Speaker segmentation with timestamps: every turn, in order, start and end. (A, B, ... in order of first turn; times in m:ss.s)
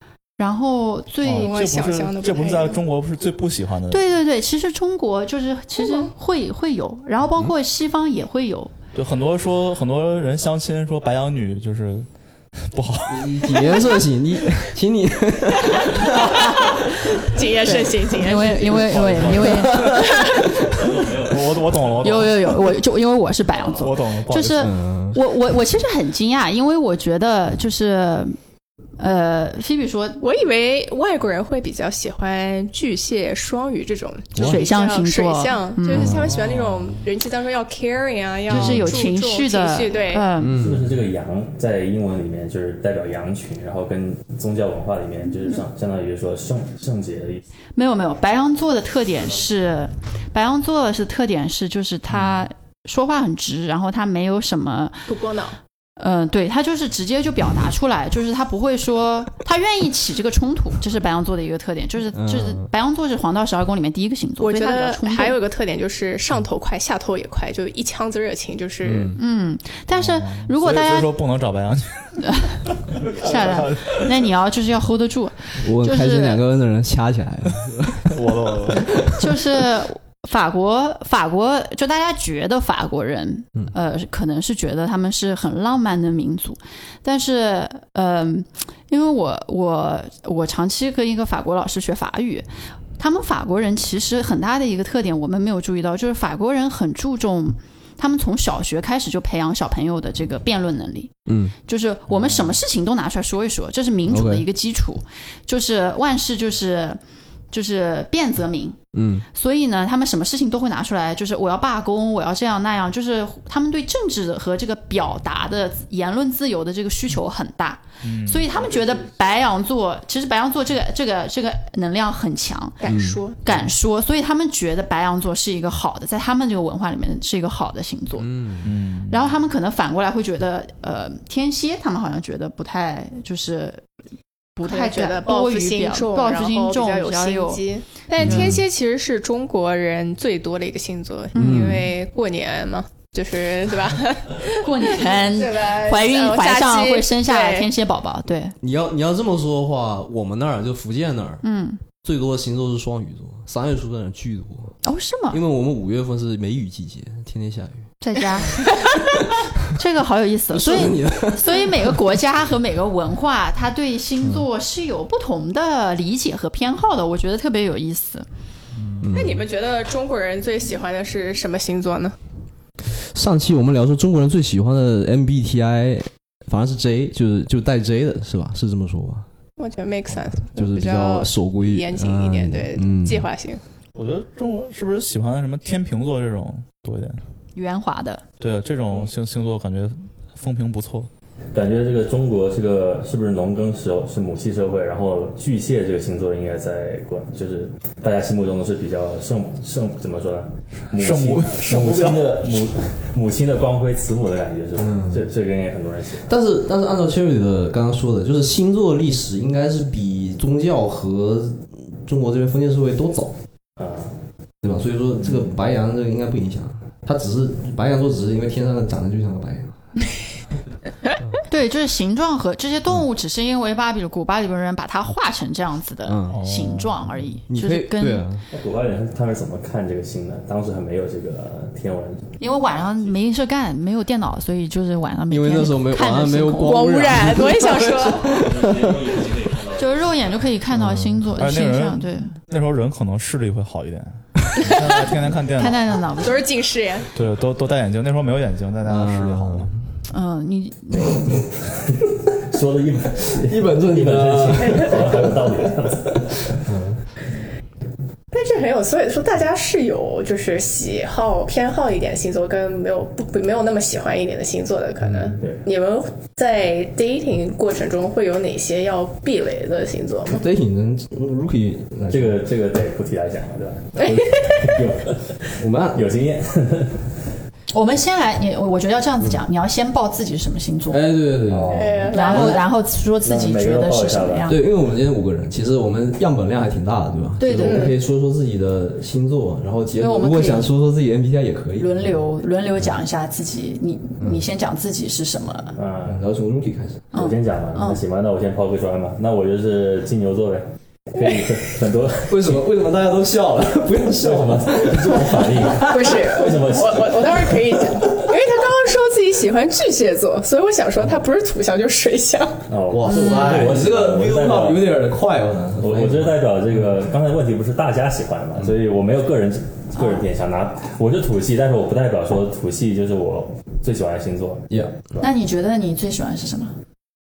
0:00.4-0:01.7 A
0:01.2-0:04.0 B
0:01.3-0:02.8 C
0:03.9-0:08.7 A
0:05.8-0:06.1 C
0:08.9-0:13.9 B
0:13.1-0:16.4 D
0:16.4-0:19.0 C
0:17.6-0:20.4 A
0:18.6-0:20.1 B
0:19.5-0:20.8 D
0:20.0-0:20.4 C
0:20.7-0:22.1 E
0:21.0-0:22.5 B
0:22.0-0:28.4 A
0:23.7-0:24.7 B
0:24.6-0:25.2 D
0:29.0-0:30.2 A
0:30.2-0:40.3 C
0:34.4-0:36.2 A
0:35.9-0:36.4 D
0:36.1-0:36.8 B
0:38.5-0:40.6 A
0:38.5-0:38.9 D
0:40.4-0:40.9 D
0:40.5-0:47.4 E
0:47.8-0:55.1 A
0:55.1-0:55.6 C
0:56.0-1:05.4 A
1:02.1-1:02.7 D
1:04.4-1:09.2 C
1:08.8-1:09.2 D
1:09.2-1:11.2 A
1:09.9-1:12.2 B
1:12.2-1:16.4 A
1:12.9-1:14.1 B
1:15.6-1:19.3 D
1:18.1-1:19.1 B
1:19.2-1:32.4 A
1:33.0-1:47.0 A
1:41.3-1:41.5 D
1:44.1-1:44.4 D
1:47.5-1:48.8 A
1:48.9-1:49.2 D
1:49.3-2:08.4 A
1:58.0-1:58.6 B
2:02.8-2:03.4 C
2:02.9-2:03.2 D
2:08.2-2:08.7 D
2:08.6-2:09.3 B
2:09.1-2:13.8 A
2:14.6-2:17.6 A
2:14.6-2:27.7 C
2:18.2-2:18.6 A
2:18.2-2:18.6 D
2:21.3-2:21.8 A
2:21.4-2:21.9 D
2:24.6-2:28.5 A
2:28.6-2:34.8 D
2:31.4-2:31.8 A
2:34.8-2:35.4 A
2:35.3-2:37.9 D
2:38.0-2:38.8 A
2:38.4-2:39.1 D
2:39.7-2:48.2 A
2:40.5-2:42.0 D
2:49.0-2:49.4 D
2:49.1-2:52.2 C
2:52.9-2:59.3 D
2:59.6-3:03.6 C
3:00.5-3:03.3 D
3:03.9-3:07.2 B
3:07.5-3:08.2 A
3:08.4-3:11.1 B
3:11.5-3:26.3 E
3:20.9-3:22.7 B
3:24.8-3:25.2 D
3:26.2-3:33.3 D
3:33.8-3:34.2 E
3:34.6-3:39.8 D
3:41.5-3:48.3 A
3:46.0-3:46.4 D
3:46.3-3:47.0 B
3:47.5-3:48.4 D
3:48.5-3:53.1 E
3:52.4-3:57.1 A
3:55.3-3:59.3 D
3:56.6-3:58.4 C
3:58.0-4:00.3 E
3:59.8-4:02.4 A
4:00.8-4:01.2 D
4:01.3-4:05.9 B
4:05.5-4:06.4 A
4:06.2-4:07.1 C
4:07.1-4:09.7 B
4:08.9-4:09.9 D
4:10.1-4:11.3 A
4:12.4-4:16.6 E
4:13.3-4:15.4 D
4:16.5-4:17.0 D
4:18.3-4:30.4 C
4:25.4-4:25.6 E
4:30.3-4:32.4 D
4:32.1-4:37.2 E
4:34.0-4:34.8 C
4:34.0-4:34.3 D
4:35.6-4:36.1 D
4:37.7-4:41.0 A
4:40.9-4:42.5 D
4:41.5-4:42.6 E
4:41.7-4:42.6 C
4:42.1-4:44.6 A
4:43.2-4:44.5 E
4:44.5-4:52.1 D
4:47.4-4:47.9 A
4:47.6-4:48.0 C
4:50.0-4:50.7 A
4:51.8-4:55.7 A
4:55.8-4:56.2 E
4:56.0-4:57.0 D
4:57.1-4:58.0 A
4:57.1-5:02.6 E
5:02.3-5:06.3 D
5:04.1-5:07.5 E
5:05.8-5:12.6 C
5:12.7-5:14.9 E
5:12.9-5:16.3 D
5:13.1-5:13.5 A
5:15.8-5:25.2 E
5:19.9-5:20.3 A
5:24.7-5:24.9 D
5:25.2-5:26.7 A